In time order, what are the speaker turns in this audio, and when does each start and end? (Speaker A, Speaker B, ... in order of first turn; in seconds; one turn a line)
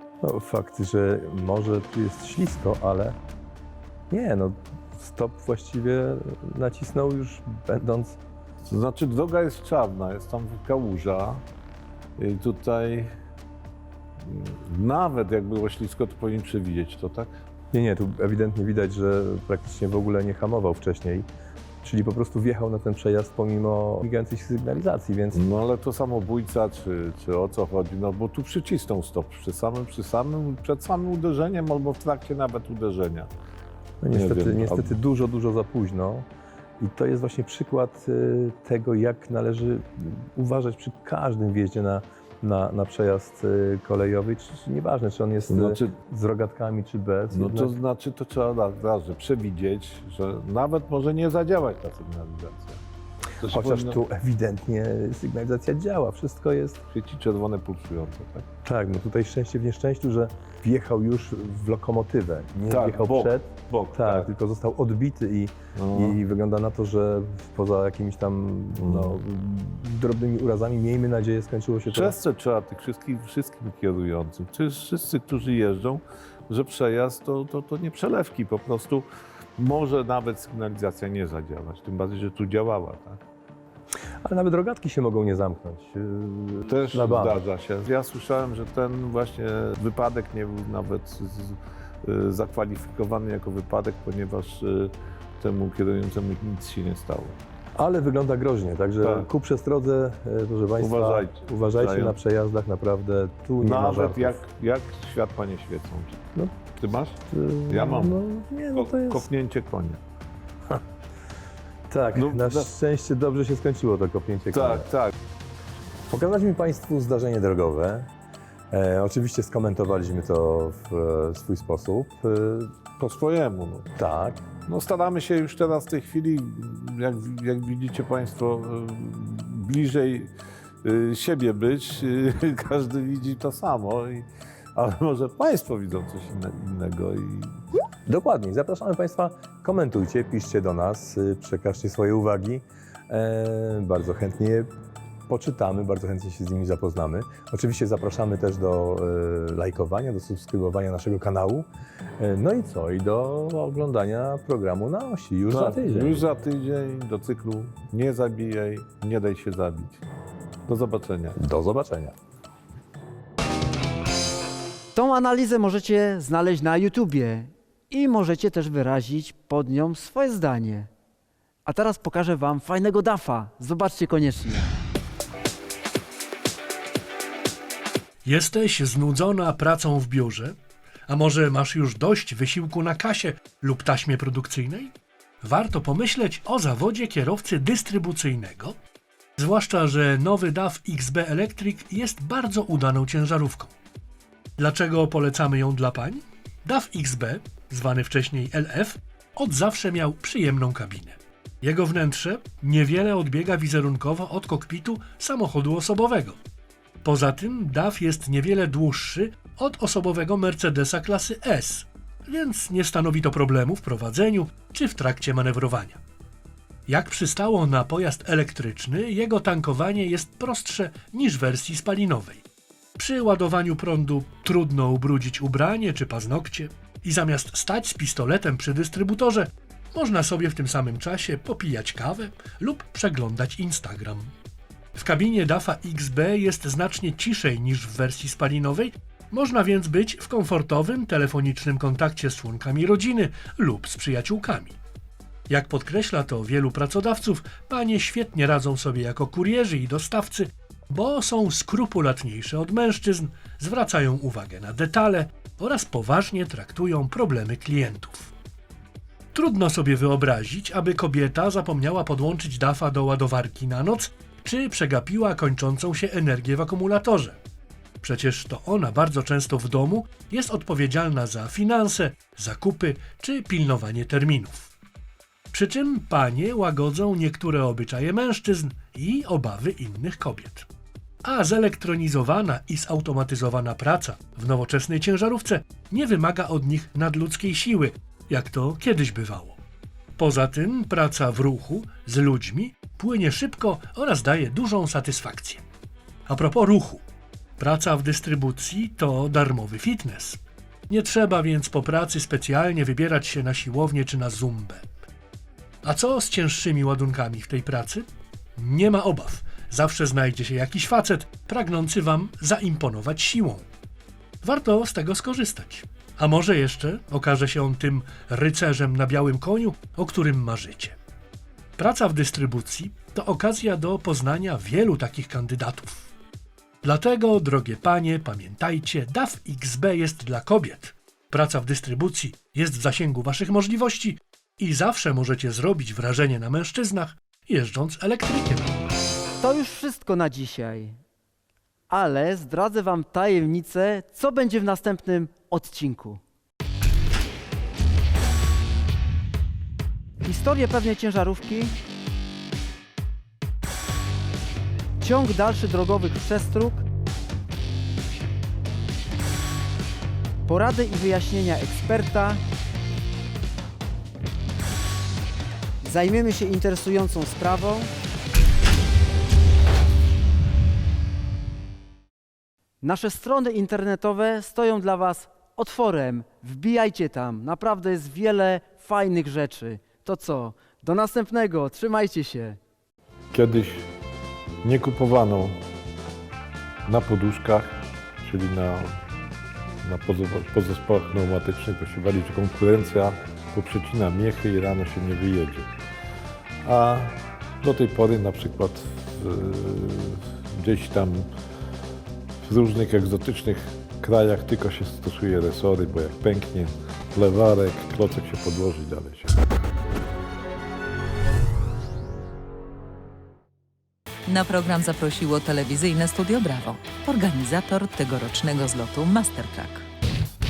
Speaker A: 0.2-3.2
Speaker A: 4.1-8.2
Speaker B: 8.7-11.4
Speaker B: 12.2-13.1
Speaker B: 14.2-17.3
Speaker A: 17.7-21.3
Speaker A: 21.8-25.4
Speaker B: 25.3-33.3
Speaker A: 34.0-36.3
Speaker B: 34.1-34.9
Speaker A: 36.8-47.7
Speaker B: 45.5-46.0
Speaker B: 47.3-52.8
Speaker B: 53.4-54.0
Speaker A: 53.4-56.8
Speaker B: 56.9-58.5
Speaker A: 58.6-72.2
Speaker B: 62.7-64.3
Speaker B: 65.8-66.2
Speaker B: 68.8-69.1
Speaker B: 71.9-83.2
Speaker A: 84.2-87.4
Speaker B: 86.7-97.4
Speaker A: 97.8-104.4
Speaker B: 100.8-102.1
Speaker B: 103.6-106.2
Speaker A: 106.3-106.7
Speaker B: 106.8-107.2
Speaker A: 107.2-109.3
Speaker B: 107.7-108.2
Speaker B: 108.8-110.0
Speaker A: 111.9-114.9
Speaker B: 112.2-112.7
Speaker B: 114.6-115.1
Speaker A: 116.1-118.1
Speaker A: 118.7-122.8
Speaker B: 123.0-123.9
Speaker A: 124.0-124.4
Speaker B: 124.7-130.3
Speaker B: 130.8-137.6
Speaker A: 138.1-144.7
Speaker A: 145.3-151.7
Speaker A: 152.2-156.3
Speaker B: 155.5-160.0
Speaker B: 160.7-161.4
Speaker A: 161.3-162.2
Speaker C: 164.9-170.9
Speaker C: 171.7-174.7
Speaker D: 178.2-180.5
Speaker D: 181.1-188.8
Speaker D: 189.4-193.7
Speaker D: 194.6-206.4
Speaker D: 207.0-216.0
Speaker D: 216.9-222.4
Speaker D: 223.0-234.3
Speaker D: 234.9-244.8
Speaker D: 245.5-258.3
Speaker D: 259.3-267.4
Speaker D: 268.0-274.7
Speaker D: 275.5-280.7
Speaker D: 281.2-289.6
Speaker D: 290.2-295.6
Speaker D: 296.3-297.0
Speaker D: 297.6-304.8
Speaker D: 305.8-308.1
Speaker D: 308.6-313.6
Speaker D: 314.4-321.0
Speaker D: 321.8-326.1
Speaker D: 326.8-338.7
Speaker C: 339.4-341.0
Speaker C: 341.9-346.2
Speaker C: 350.2-351.8
Speaker C: 355.0-356.8
Speaker C: 360.5-362.4
Speaker C: 365.8-367.9
Speaker C: 372.8-382.6
Speaker B: 383.3-383.9
Speaker B: 384.6-385.6
Speaker B: 386.9-389.0
Speaker B: 389.8-395.8
Speaker B: 396.6-401.3
Speaker B: 402.4-409.4
Speaker E: 414.3-419.9